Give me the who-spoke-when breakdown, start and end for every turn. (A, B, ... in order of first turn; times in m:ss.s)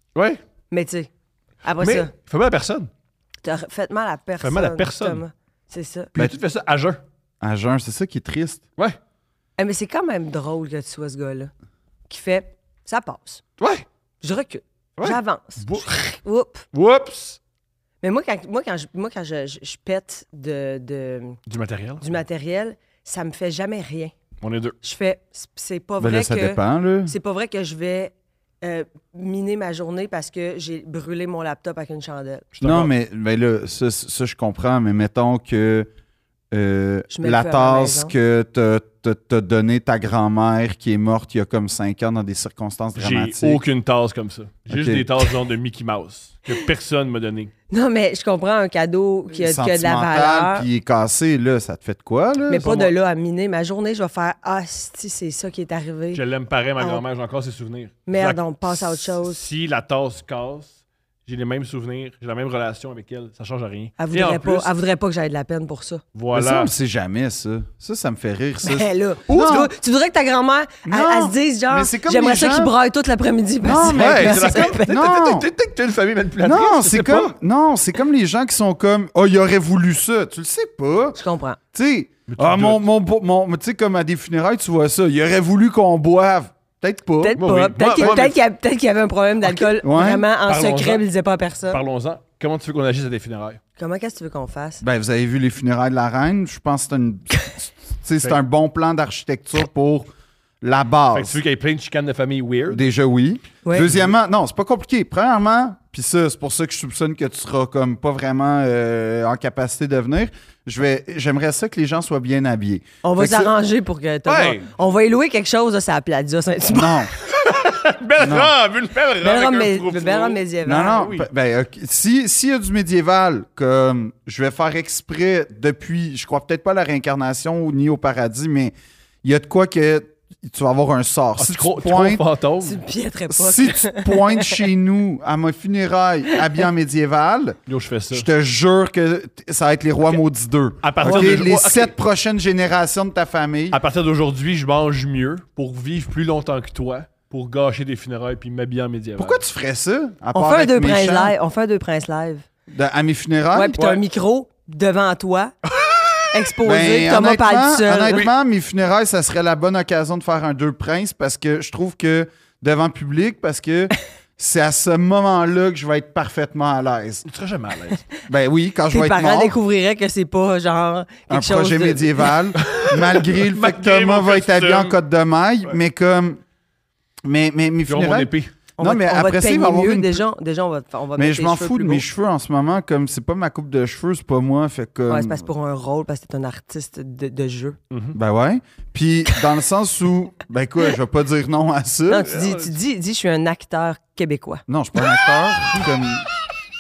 0:00.2-0:00.4 A
0:00.7-0:01.1 B
0:01.6-0:02.1 B
0:01.8-0:02.9 A
0:03.4-0:06.1 B
0:04.4-0:05.2 A
0:06.1-0:07.0 A
0:07.4-0:08.6 C
0:09.6-0:11.5 B
0:12.1-0:13.4 B
0:13.6-0:13.9 A
0:14.2-0:16.7 B
0:15.0-0:15.9 A
0:16.7-0:17.4 A
0:18.0-0:21.4 B
0:21.5-0:22.0 A
0:22.0-0:24.1 B
0:24.4-0:24.8 A
0:24.8-0:32.4 B
0:26.0-0:27.1 C
0:32.6-0:32.9 A
0:32.6-0:35.9 C
0:36.5-0:43.6 C
0:37.1-0:38.1 B
0:43.0-0:47.5 A
0:44.7-0:45.1 C
0:47.7-0:50.7 B
0:49.3-0:52.7 C
0:52.5-0:56.2 B
0:52.6-0:52.9 A
0:56.1-1:00.8 A
0:58.1-0:59.4 B
1:01.3-1:04.7 A
1:04.0-1:06.0 B
1:06.2-1:06.7 A
1:06.3-1:09.7 C
1:08.6-1:15.0 B
1:09.3-1:09.7 A
1:10.8-1:12.7 C
1:13.6-1:15.5 C
1:13.8-1:17.3 A
1:16.4-1:21.2 C
1:21.2-1:21.6 B
1:21.7-1:27.4 C
1:22.3-1:22.8 A
1:27.2-1:31.8 B
1:27.4-1:28.4 A
1:28.0-1:28.2 C
1:29.8-1:30.2 C
1:30.5-1:31.0 A
1:31.7-1:33.6 A
1:33.8-1:34.8 B
1:34.8-1:40.1 C
1:40.6-1:41.4 C
1:41.1-1:42.8 A
1:42.7-1:53.5 C
1:43.6-1:43.9 B
1:53.0-1:57.1 B
1:54.3-1:54.7 A
1:56.7-1:57.1 C
1:57.4-2:01.3 A
1:58.2-1:58.5 C
1:59.2-2:01.0 B
2:00.6-2:12.2 C
2:11.4-2:12.8 A
2:12.6-2:14.6 B
2:13.3-2:17.6 C
2:17.7-2:18.3 A
2:18.1-2:23.8 C
2:20.8-2:21.9 A
2:21.0-2:21.4 B
2:23.7-2:29.4 A
2:29.2-2:31.3 C
2:30.3-2:32.4 B
2:32.7-2:33.8 C
2:33.5-2:35.5 B
2:35.8-2:36.2 A
2:36.3-2:38.3 B
2:36.6-2:47.3 C
2:47.3-2:48.0 A
2:48.3-2:49.6 C
2:48.9-2:52.4 B
2:51.3-2:56.4 C
2:52.6-2:55.0 A
2:57.2-3:00.2 C
2:57.9-2:58.5 A
2:58.8-3:02.0 B
3:01.2-3:05.4 C
3:05.1-3:07.8 B
3:07.9-3:08.2 A
3:08.1-3:12.3 C
3:12.1-3:14.6 B
3:12.3-3:12.7 A
3:14.7-3:16.3 C